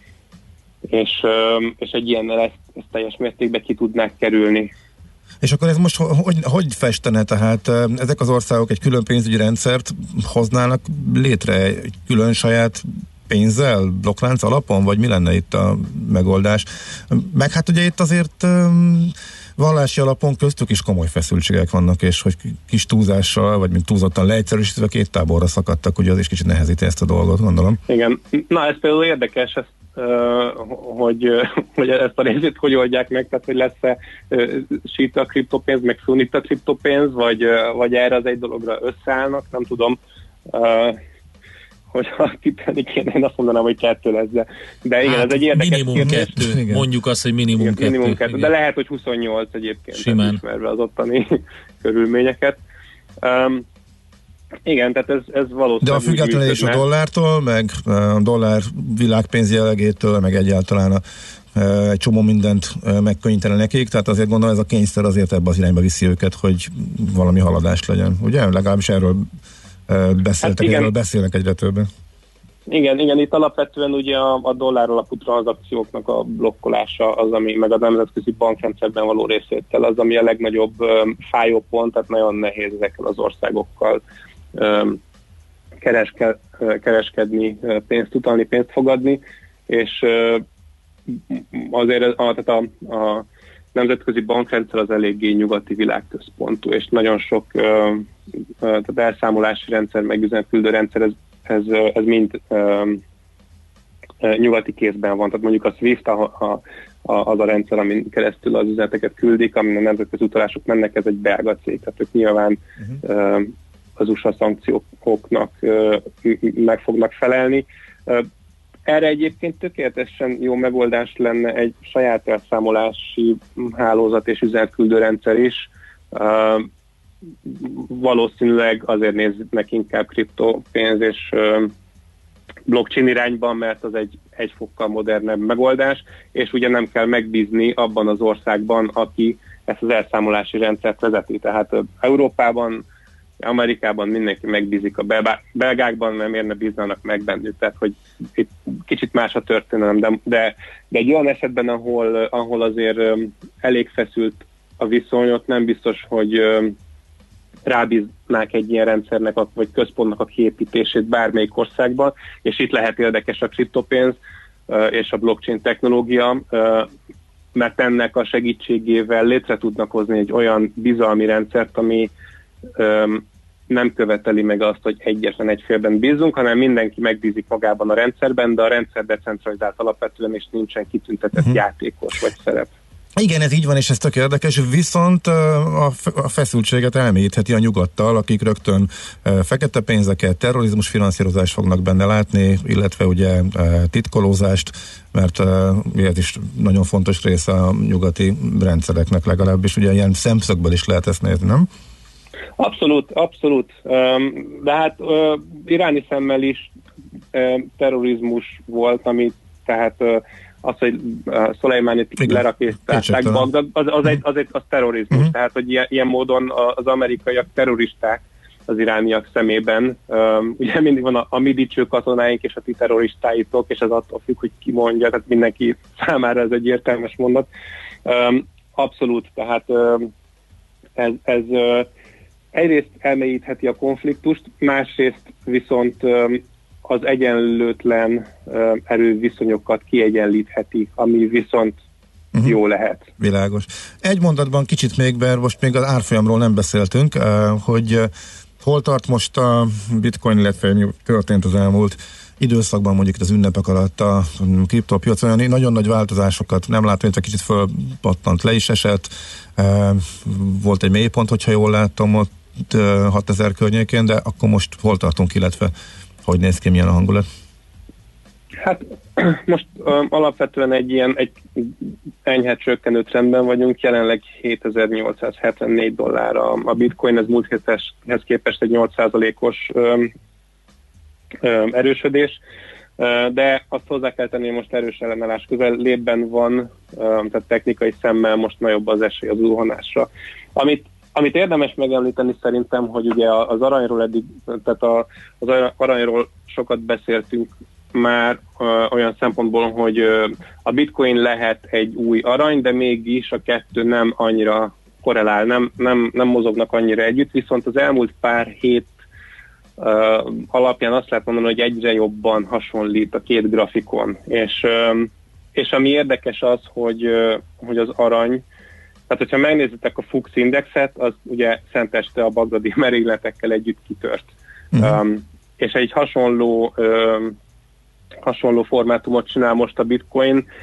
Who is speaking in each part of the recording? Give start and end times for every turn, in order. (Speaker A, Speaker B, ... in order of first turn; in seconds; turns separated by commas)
Speaker A: 0.9-4.7, Speaker B: 5.4-27.8, Speaker A: 27.9-40.0, Speaker A: 40.5-41.0, Speaker A: 41.9-46.3, Speaker C: 45.0-48.5, Speaker B: 46.0-46.9, Speaker A: 47.6-52.6, Speaker C: 49.9-50.4, Speaker A: 53.2-53.6, Speaker A: 54.7-56.8, Speaker B: 55.8-61.0, Speaker B: 61.5-69.3, Speaker B: 69.9-71.9, Speaker A: 70.4-70.9, Speaker A: 72.7-84.0, Speaker A: 84.6-85.0, Speaker A: 85.8-90.4, Speaker A: 91.1-98.1, Speaker A: 98.6-103.0, Speaker A: 104.2-118.3, Speaker A: 118.9-126.7, Speaker A: 127.5-131.7, Speaker A: 132.7-142.8, Speaker A: 143.4-156.8, Speaker A: 157.7-166.9, Speaker A: 167.6-172.1, Speaker A: 172.8-182.7, Speaker B: 183.2-201.7, Speaker A: 202.6-206.7, Speaker A: 207.3-227.5, Speaker B: 212.2-213.5, Speaker A: 228.1-230.1, Speaker A: 231.0-231.9, Speaker A: 232.5-241.8, Speaker B: 242.3-242.6, Speaker A: 242.4-243.1, Speaker B: 243.2-265.7, Speaker B: 266.2-267.2, Speaker A: 268.6-280.1, Speaker A: 281.4-282.4, Speaker A: 283.0-308.9, Speaker A: 309.8-318.4, Speaker A: 319.1-327.4, Speaker B: 324.7-325.0, Speaker A: 328.2-330.5